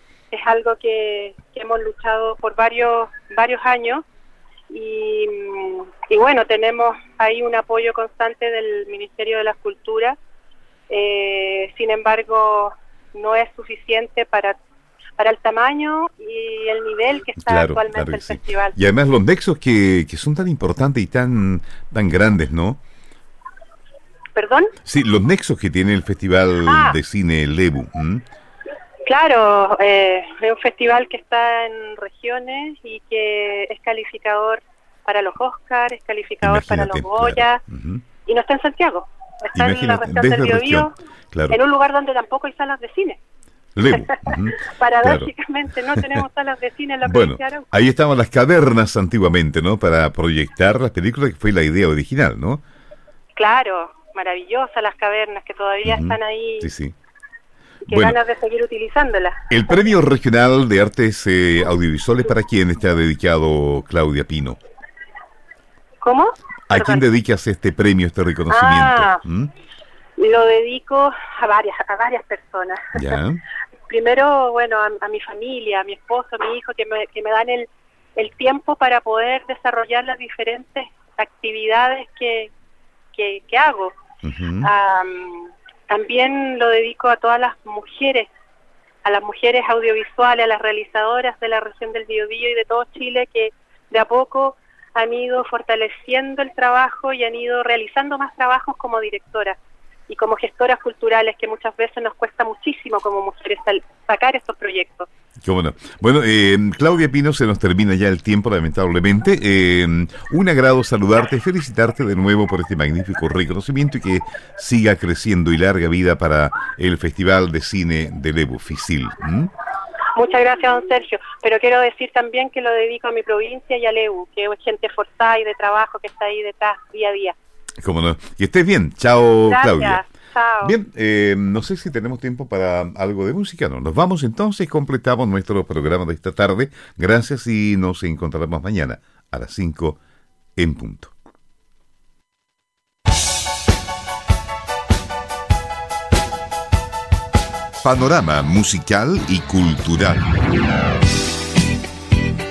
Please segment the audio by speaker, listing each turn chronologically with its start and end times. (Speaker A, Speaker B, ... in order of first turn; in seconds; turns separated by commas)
Speaker A: 0.3-4.0, Speaker A: 4.7-10.2, Speaker A: 10.9-14.6, Speaker A: 15.2-18.8, Speaker B: 17.4-22.8, Speaker A: 24.3-24.7, Speaker B: 24.8-28.2, Speaker A: 26.6-27.0, Speaker A: 29.1-37.6, Speaker B: 36.4-38.0, Speaker A: 38.3-40.9, Speaker B: 39.5-41.6, Speaker A: 41.5-43.2, Speaker B: 43.7-45.3, Speaker A: 43.9-47.7, Speaker B: 45.9-46.2, Speaker B: 47.0-52.6, Speaker A: 53.3-56.7, Speaker B: 55.8-57.0, Speaker A: 57.8-59.4, Speaker B: 57.9-58.2, Speaker B: 59.5-64.6, Speaker A: 66.0-67.0, Speaker B: 66.7-69.5, Speaker A: 68.5-69.2, Speaker A: 70.2-73.2, Speaker B: 72.9-73.4, Speaker A: 73.9-82.5, Speaker A: 83.1-83.9, Speaker B: 84.2-84.7, Speaker A: 84.6-88.3, Speaker A: 89.0-99.6, Speaker A: 100.1-105.1, Speaker B: 105.4-119.5, Speaker A: 120.2-127.3, Speaker B: 127.8-130.0, Speaker A: 129.5-130.7, Speaker B: 130.6-140.0, Speaker B: 140.6-141.1, Speaker B: 147.8-150.2